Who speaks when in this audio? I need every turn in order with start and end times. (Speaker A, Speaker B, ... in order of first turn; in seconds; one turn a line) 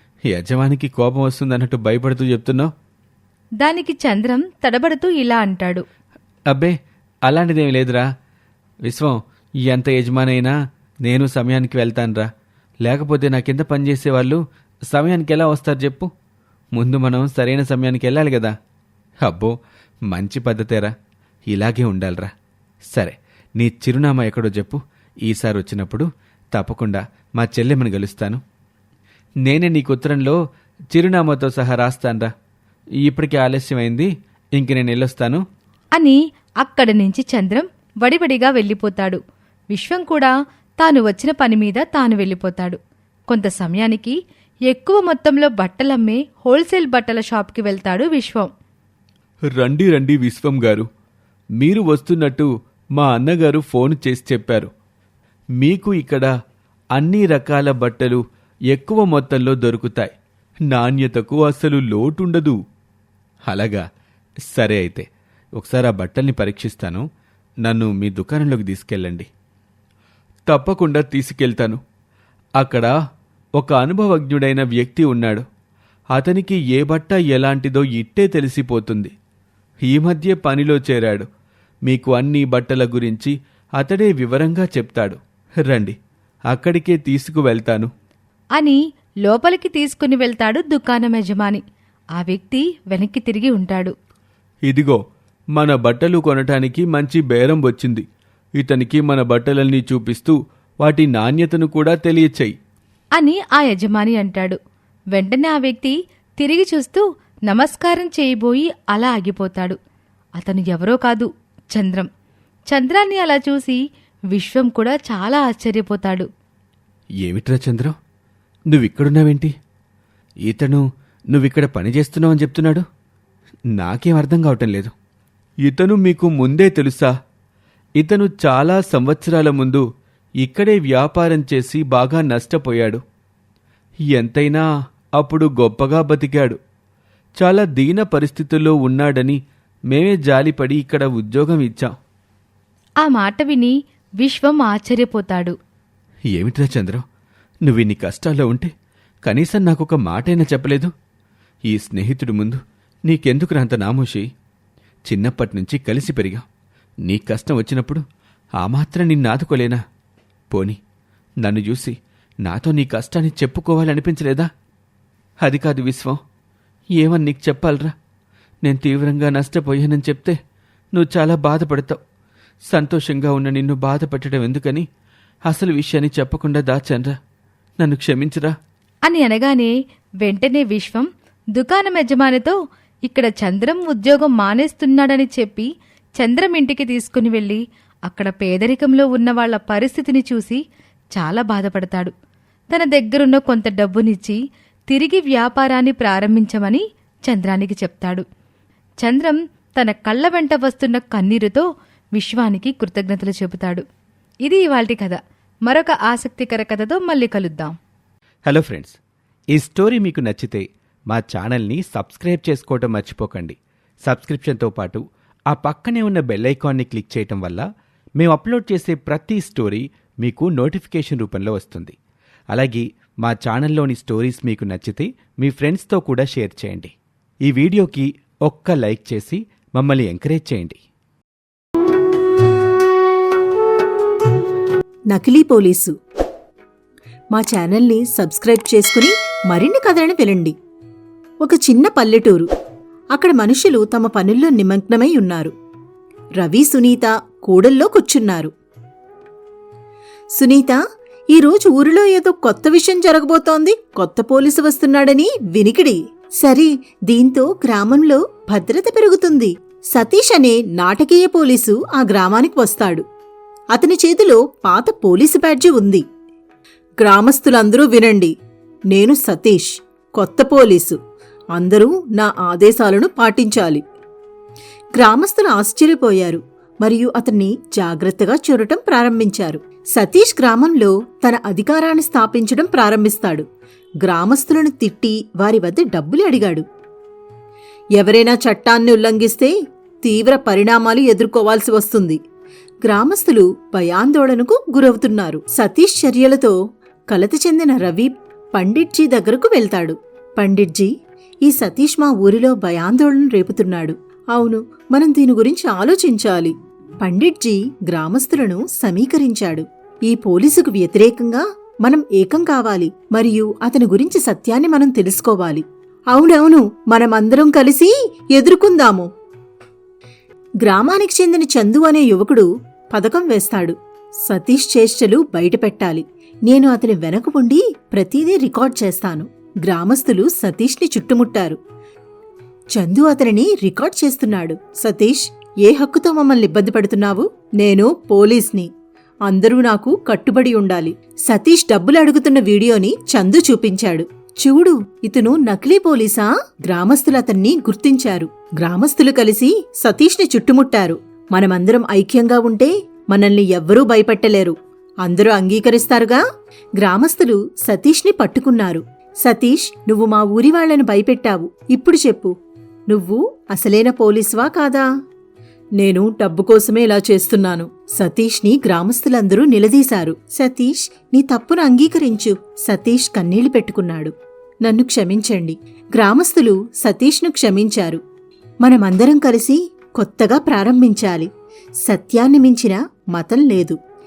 Speaker A: 0.3-2.7
Speaker B: 3.6-5.8
Speaker A: 7.3-8.0
Speaker A: 8.8-10.5
Speaker A: 11.0-12.3
Speaker A: 12.8-14.4
Speaker A: 14.9-16.1
Speaker A: 16.7-18.5
Speaker A: 19.2-19.5
Speaker A: 20.1-20.9
Speaker A: 21.5-22.3
Speaker A: 22.9-28.4
Speaker A: 29.4-30.4
Speaker A: 30.9-32.3
Speaker A: 33.0-35.4
Speaker B: 36.0-39.2
Speaker B: 39.7-42.8
Speaker B: 43.3-44.1
Speaker B: 44.7-48.5
Speaker A: 49.6-50.9
Speaker A: 51.6-54.7
Speaker A: 55.6-56.3
Speaker A: 57.0-60.1
Speaker A: 60.7-62.6
Speaker A: 63.5-63.8
Speaker A: 64.5-65.0
Speaker A: 65.6-67.0
Speaker A: 67.6-69.3
Speaker A: 70.5-71.8
Speaker A: 72.6-72.9
Speaker A: 73.6-75.4
Speaker A: 76.1-79.1
Speaker A: 79.8-81.3
Speaker A: 81.8-86.0
Speaker A: 86.5-87.9
Speaker B: 88.5-91.6
Speaker B: 92.2-93.9
Speaker A: 94.7-95.0
Speaker A: 95.5-98.0
Speaker A: 98.6-102.5
Speaker B: 103.2-104.6
Speaker B: 105.1-109.8
Speaker B: 110.4-112.1
Speaker B: 112.7-113.8
Speaker B: 114.3-116.3
Speaker A: 117.2-117.9
Speaker A: 118.7-119.5
Speaker A: 120.5-122.8
Speaker A: 123.8-124.9
Speaker A: 125.6-127.1
Speaker A: 128.0-129.8
Speaker A: 130.4-133.0
Speaker A: 134.1-134.6
Speaker A: 135.2-136.6
Speaker A: 137.4-139.4
Speaker A: 139.9-141.9
Speaker B: 143.0-145.5
Speaker A: 146.3-147.0
Speaker A: 147.7-148.7
Speaker A: 149.2-150.9
Speaker A: 151.7-154.3
Speaker A: 155.1-156.4
Speaker A: 157.1-158.0
Speaker A: 158.6-159.8
Speaker A: 160.5-160.8
Speaker A: 161.4-161.9
Speaker A: 162.4-164.5
Speaker A: 165.4-166.2
Speaker A: 167.0-167.9
Speaker A: 168.6-170.3
Speaker A: 170.9-172.0
Speaker A: 172.7-174.8
Speaker A: 175.5-177.2
Speaker A: 177.8-178.5
Speaker B: 179.1-182.6
Speaker B: 183.1-190.6
Speaker B: 191.2-192.1
Speaker B: 192.7-198.2
Speaker B: 199.0-203.8
Speaker B: 204.4-207.7
Speaker A: 208.5-209.0
Speaker A: 209.5-217.7
Speaker A: 218.2-221.9
Speaker A: 222.5-226.9
Speaker A: 227.4-230.8
Speaker C: 235.1-235.9
Speaker C: 237.3-240.6
Speaker C: 241.4-242.5
Speaker C: 243.1-245.5
Speaker C: 246.4-248.5
Speaker C: 250.3-250.8
Speaker C: 251.3-263.0
Speaker C: 263.7-266.0
Speaker C: 267.0-268.3
Speaker C: 268.9-271.0
Speaker C: 271.5-273.8
Speaker C: 275.0-283.4
Speaker C: 284.0-286.6
Speaker C: 288.0-292.2
Speaker C: 292.8-296.6
Speaker C: 297.1-300.9
Speaker C: 301.4-319.1
Speaker C: 320.6-331.6
Speaker C: 332.7-338.7
Speaker C: 339.3-356.2
Speaker C: 356.8-362.3
Speaker C: 362.9-364.9
Speaker C: 365.8-374.1
Speaker C: 374.6-378.0
Speaker C: 378.6-381.3
Speaker C: 381.8-383.8